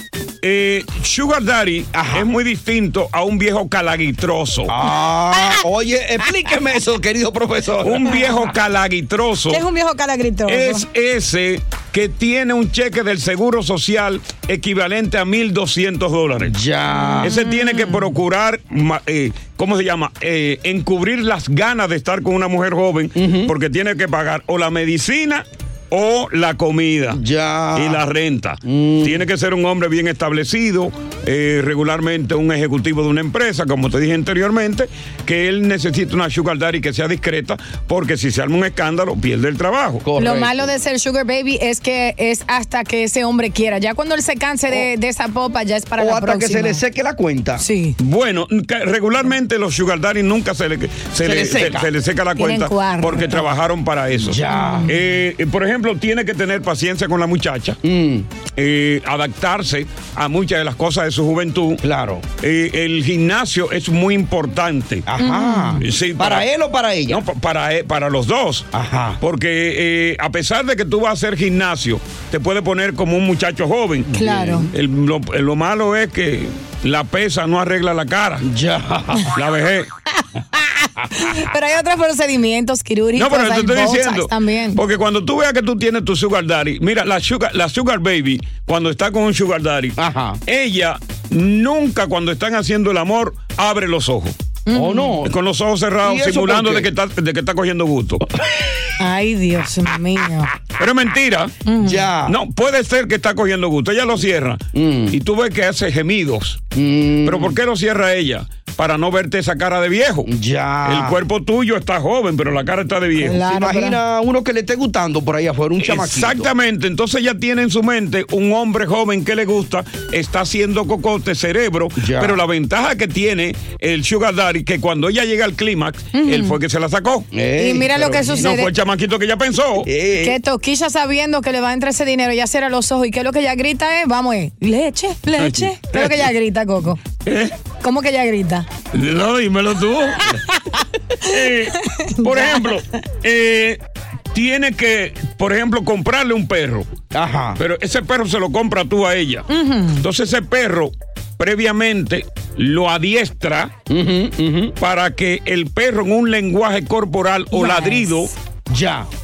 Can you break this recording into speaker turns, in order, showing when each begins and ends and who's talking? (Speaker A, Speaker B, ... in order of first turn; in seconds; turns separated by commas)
Speaker A: 0.4-4.7, Speaker B: 1.9-2.3, Speaker B: 4.7-8.3, Speaker A: 7.8-9.6, Speaker C: 9.5-10.9, Speaker A: 10.5-16.6, Speaker B: 16.5-17.4, Speaker C: 16.9-18.0, Speaker A: 17.2-27.2, Speaker B: 23.2-23.5, Speaker B: 27.1-28.0, Speaker A: 27.8-40.0, Speaker B: 28.7-29.3, Speaker B: 40.0-40.6, Speaker C: 40.2-46.8, Speaker B: 46.0-47.6, Speaker C: 47.6-48.0, Speaker A: 48.0-57.8, Speaker B: 51.2-51.9, Speaker C: 52.4-53.5, Speaker B: 54.2-54.9, Speaker C: 54.5-54.9, Speaker B: 57.8-58.3, Speaker A: 58.6-61.8, Speaker B: 61.8-62.2, Speaker A: 62.4-65.1, Speaker B: 65.1-67.2, Speaker C: 65.2-65.8, Speaker A: 65.8-66.5, Speaker A: 67.1-68.7, Speaker B: 68.7-69.2, Speaker A: 69.2-74.1, Speaker B: 74.1-74.7, Speaker C: 74.1-74.7, Speaker A: 74.7-78.5, Speaker B: 78.4-79.4, Speaker A: 79.3-79.9, Speaker C: 80.6-84.8, Speaker A: 83.2-94.3, Speaker B: 90.0-90.4, Speaker C: 94.7-95.2, Speaker B: 94.7-95.3, Speaker A: 95.2-98.3, Speaker B: 96.0-96.9, Speaker C: 99.0-100.5, Speaker A: 100.8-101.5, Speaker C: 101.7-102.1, Speaker B: 101.8-102.4, Speaker A: 102.3-106.6, Speaker B: 104.7-105.2, Speaker B: 106.8-107.6, Speaker A: 107.2-110.3, Speaker B: 110.3-111.2, Speaker A: 110.8-113.4, Speaker C: 113.2-114.0, Speaker B: 113.3-116.5, Speaker A: 115.8-127.3, Speaker B: 122.0-122.4, Speaker C: 126.1-126.6, Speaker B: 127.3-128.5, Speaker C: 127.6-128.7, Speaker A: 128.3-129.9, Speaker B: 129.8-130.4, Speaker C: 130.2-137.0, Speaker A: 135.4-136.2, Speaker A: 137.2-137.5, Speaker C: 137.8-138.7, Speaker A: 138.9-140.4, Speaker A: 141.2-143.8, Speaker C: 142.0-142.8, Speaker A: 144.3-146.9, Speaker B: 147.1-147.6, Speaker A: 147.6-149.5, Speaker C: 149.5-150.0, Speaker A: 150.0-153.7, Speaker B: 153.9-154.7, Speaker A: 154.8-158.3, Speaker C: 157.5-158.3, Speaker B: 158.7-159.1